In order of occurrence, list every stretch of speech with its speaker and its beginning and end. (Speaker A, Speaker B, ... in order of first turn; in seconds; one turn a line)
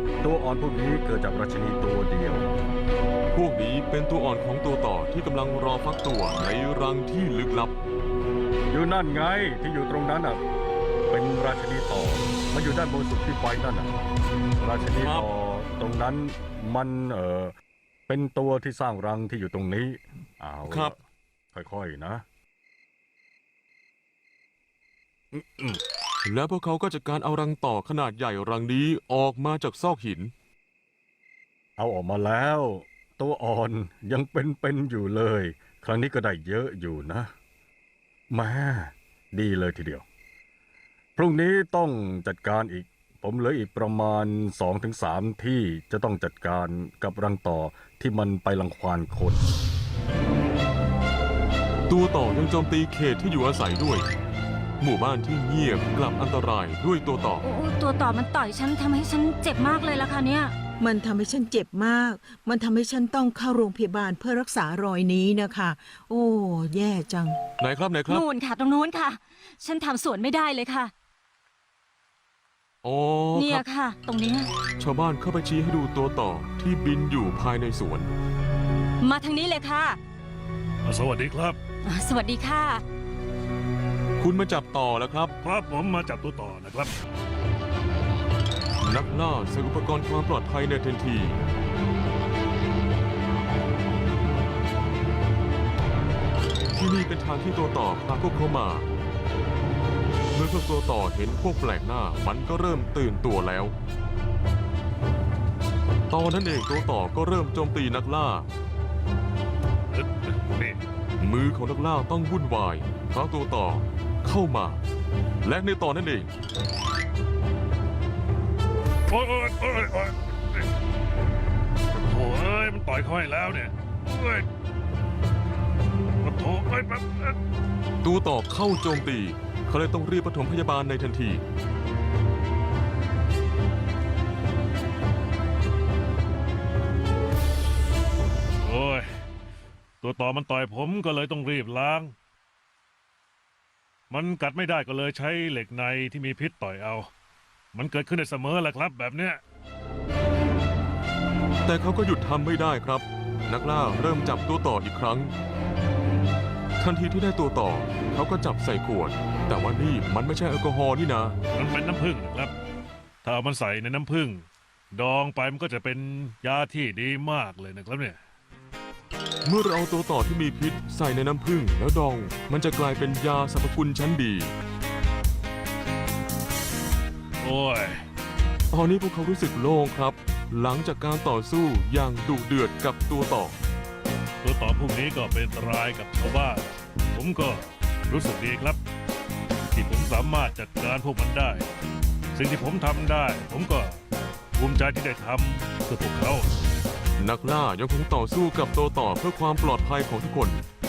Speaker A: 0.2-2.5
Speaker B: 3.3-7.8
Speaker A: 8.7-10.4
Speaker A: 11.1-13.9
Speaker A: 14.6-17.5
Speaker B: 14.9-15.3
Speaker A: 18.1-20.9
Speaker B: 20.6-20.9
Speaker A: 21.5-22.2
Speaker A: 25.3-25.8
Speaker B: 26.2-30.3
Speaker A: 31.8-37.3
Speaker A: 38.3-40.0
Speaker A: 41.1-49.4
Speaker B: 51.9-54.1
Speaker B: 54.8-57.4
Speaker C: 57.4-60.5
Speaker D: 60.8-67.4
Speaker B: 67.6-68.2
Speaker C: 68.1-70.9
Speaker B: 72.8-73.7
Speaker C: 73.3-74.5
Speaker B: 74.8-78.1
Speaker C: 79.0-80.0
Speaker E: 80.8-81.6
Speaker C: 81.8-82.8
Speaker B: 84.2-85.3
Speaker E: 85.4-87.0
Speaker B: 88.8-91.4
Speaker B: 96.7-98.9
Speaker B: 100.3-103.7
Speaker B: 106.1-108.5
Speaker E: 109.9-110.8
Speaker B: 111.2-114.8
Speaker B: 115.4-116.3
Speaker E: 119.1-120.6
Speaker E: 122.0-124.5
Speaker E: 126.2-127.4
Speaker B: 128.0-131.4
Speaker E: 138.6-139.1
Speaker E: 140.0-142.1
Speaker E: 144.1-147.1
Speaker E: 147.7-149.4
Speaker B: 151.7-155.3
Speaker B: 156.8-161.4
Speaker E: 161.5-162.5
Speaker E: 163.2-168.2
Speaker B: 169.4-174.6
Speaker E: 177.4-178.0
Speaker B: 178.7-183.6
Speaker E: 184.4-188.8
Speaker E: 189.7-191.7
Speaker E: 192.3-194.0
Speaker E: 194.5-196.5
Speaker B: 197.2-200.6